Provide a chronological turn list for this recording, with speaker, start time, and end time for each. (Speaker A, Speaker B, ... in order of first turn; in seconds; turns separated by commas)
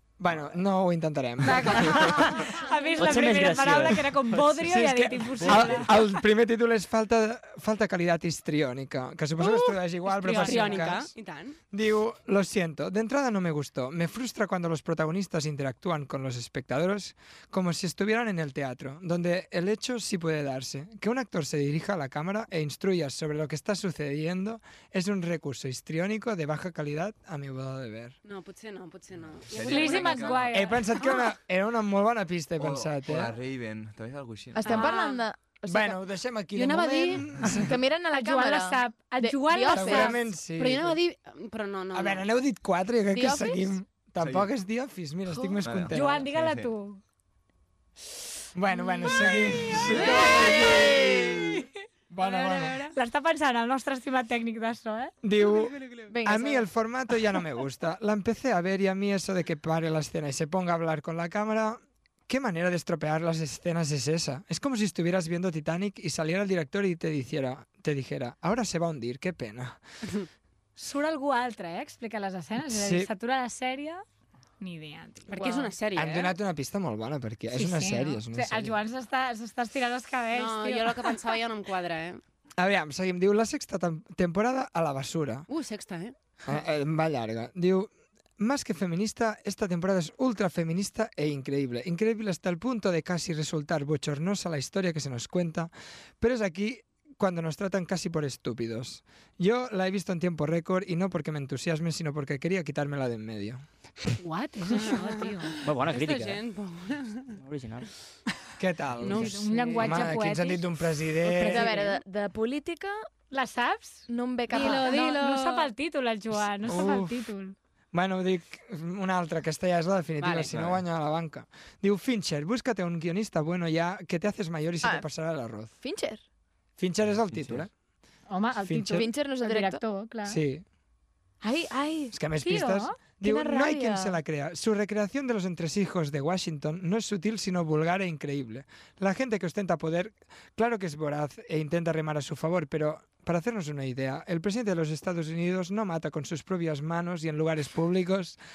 Speaker A: 0.2-2.2, Speaker B: 1.4-6.0, Speaker C: 3.0-4.1, Speaker A: 4.5-11.1, Speaker D: 9.4-11.6, Speaker B: 10.2-10.9, Speaker A: 11.7-28.1, Speaker D: 28.2-30.5, Speaker E: 29.3-30.6, Speaker B: 29.6-30.9, Speaker A: 30.5-33.4, Speaker E: 32.6-34.8, Speaker F: 34.5-36.0, Speaker B: 34.6-35.2, Speaker A: 35.7-37.8, Speaker D: 36.5-37.3, Speaker F: 37.5-40.2, Speaker B: 38.1-40.2, Speaker A: 39.7-41.0, Speaker D: 40.6-42.3, Speaker A: 41.9-46.3, Speaker F: 43.1-43.8, Speaker E: 44.2-44.5, Speaker E: 45.6-46.7, Speaker B: 45.9-47.0, Speaker A: 48.5-51.4, Speaker D: 49.9-51.0, Speaker B: 50.0-50.5, Speaker F: 50.2-51.3, Speaker B: 51.4-51.7, Speaker A: 52.1-52.8, Speaker D: 52.2-52.9, Speaker B: 52.9-55.1, Speaker A: 55.2-69.8, Speaker D: 55.4-56.1, Speaker F: 56.1-56.7, Speaker B: 70.8-74.0, Speaker A: 72.6-73.1, Speaker B: 74.6-75.3, Speaker D: 75.3-76.3, Speaker F: 75.3-75.7, Speaker A: 76.0-78.8, Speaker B: 77.5-81.2, Speaker D: 80.3-82.2, Speaker A: 82.6-85.5, Speaker D: 85.5-86.1, Speaker A: 86.5-103.6, Speaker B: 104.2-105.5, Speaker D: 104.8-107.4, Speaker C: 105.6-106.4, Speaker C: 107.4-107.9, Speaker A: 108.6-111.8, Speaker D: 109.0-110.1, Speaker B: 109.0-110.7, Speaker F: 111.3-113.0, Speaker B: 111.4-111.9, Speaker B: 113.3-117.5, Speaker F: 114.1-114.9, Speaker D: 114.5-115.7, Speaker A: 116.6-117.2, Speaker A: 117.9-125.7, Speaker D: 120.2-120.5, Speaker E: 120.5-120.8, Speaker F: 124.8-125.1, Speaker F: 125.7-126.2, Speaker A: 126.8-127.7, Speaker E: 127.1-127.6, Speaker B: 128.3-130.4, Speaker A: 128.6-129.1, Speaker F: 128.9-129.8, Speaker A: 130.2-130.6, Speaker F: 131.4-132.2, Speaker A: 132.1-148.4, Speaker B: 132.4-133.0, Speaker F: 133.2-134.2